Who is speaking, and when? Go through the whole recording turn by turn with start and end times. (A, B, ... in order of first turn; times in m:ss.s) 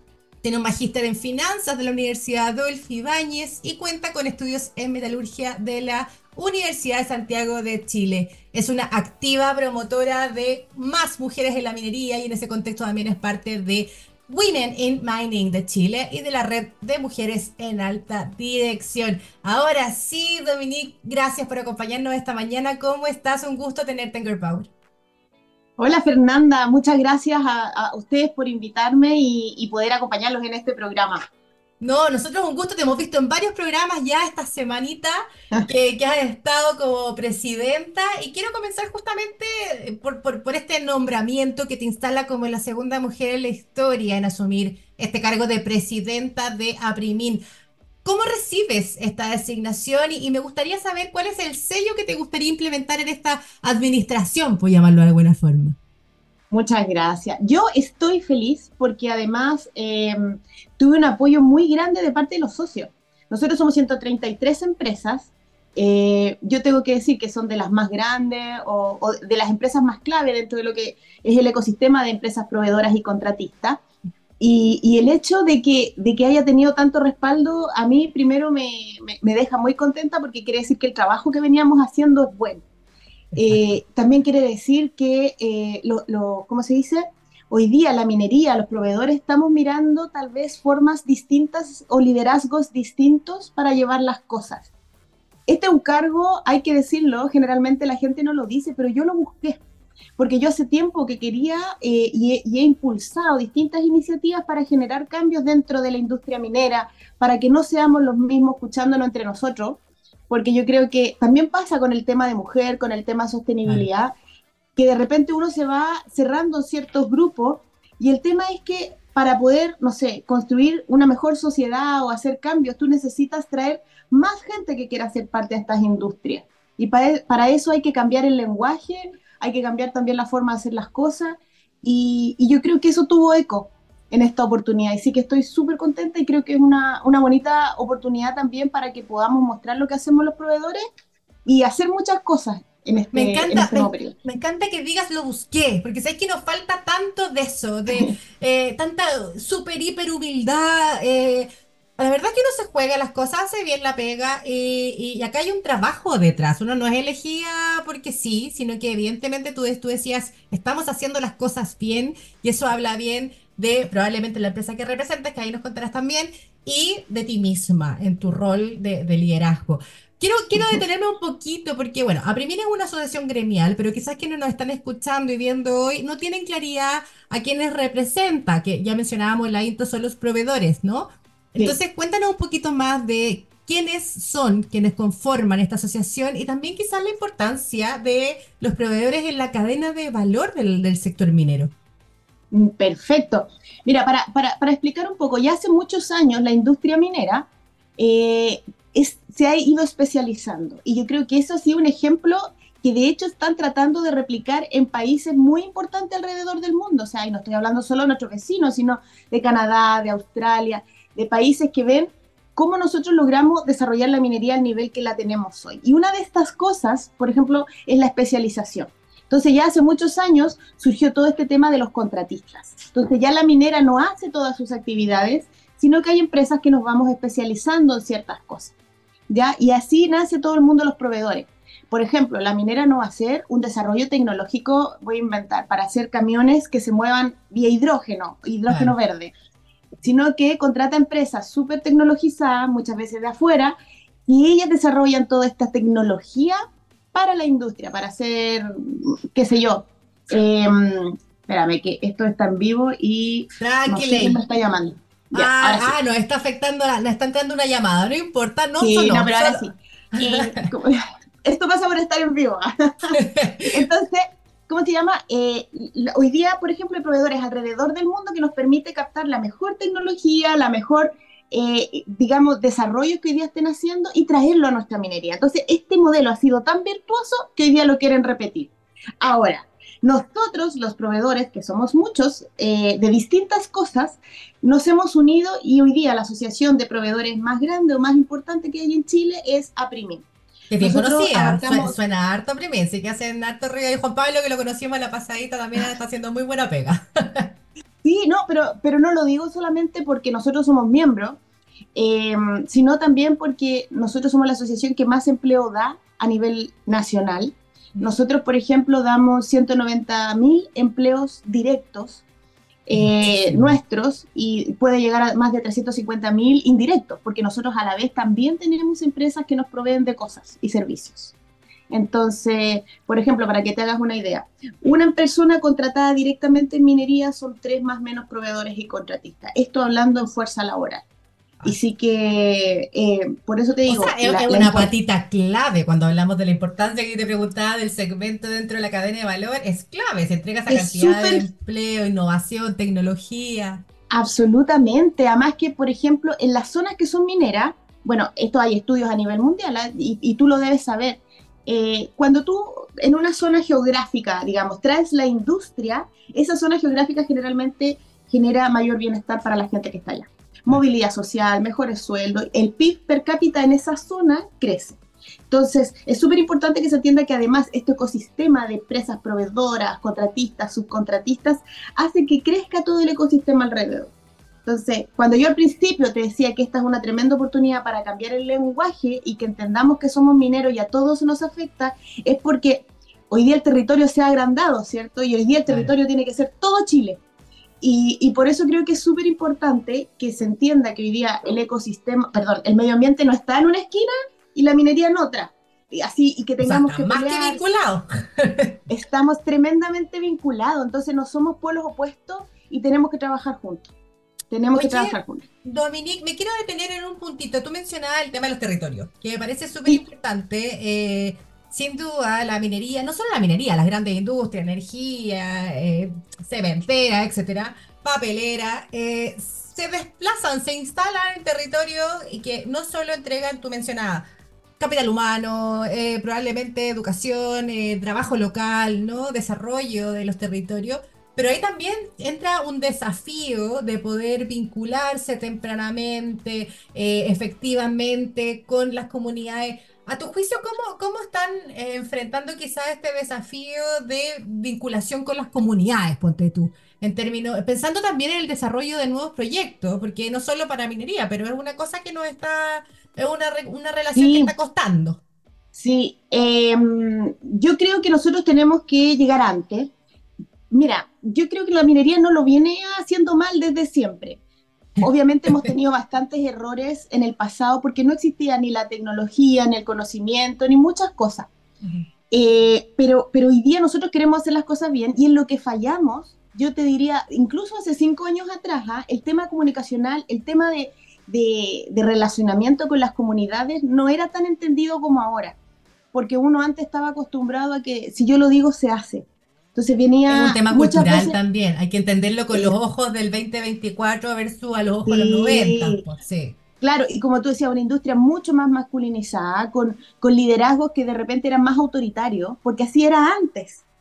0:00.4-0:24.7 A
0:25.8-0:31.2 B
0:31.8-0:35.2 A
0:35.7-0:47.4 A
0:48.0-0:55.8 A
0:56.5-1:13.8 B
1:14.4-1:22.6 B
1:23.3-1:23.8 A
1:23.4-1:34.7 B
1:35.5-1:39.6 B
1:40.2-1:54.1 B
1:54.8-2:20.8 B
2:21.4-2:24.2 B
2:23.1-3:11.7 A
3:12.5-3:48.7 B
3:49.3-3:59.3 B
3:58.7-3:59.0 A
4:00.0-4:03.8 B
4:04.3-4:06.6 B
4:07.1-4:15.9 B
4:13.6-4:14.4 A
4:15.3-4:20.7 A
4:18.8-4:23.2 B
4:23.1-4:23.8 A
4:23.7-4:50.3 B
4:50.7-4:57.5 A
4:50.8-4:52.0 B
4:58.0-5:01.4 B
5:02.0-5:12.2 B
5:12.9-5:21.4 B
5:12.9-5:13.8 A
5:21.9-5:31.0 B
5:31.6-5:34.9 B
5:33.9-5:43.8 A
5:40.7-5:41.5 B
5:44.1-6:05.0 B
6:05.5-6:14.1 B
6:14.6-6:27.2 B
6:25.7-6:25.9 A
6:27.8-6:37.6 B
6:36.6-6:38.8 A
6:38.9-6:43.9 B
6:44.5-6:45.4 B
6:44.8-7:04.3 A
7:04.8-7:35.2 A
7:34.2-7:34.5 B
7:35.8-7:39.9 B
7:40.7-7:44.4 B
7:45.0-7:51.5 B
7:45.0-7:45.7 A
7:51.8-7:52.1 A
7:52.3-8:05.6 B
8:06.1-8:11.4 B
8:10.3-8:16.6 A
8:15.1-8:16.0 B
8:16.8-8:23.8 B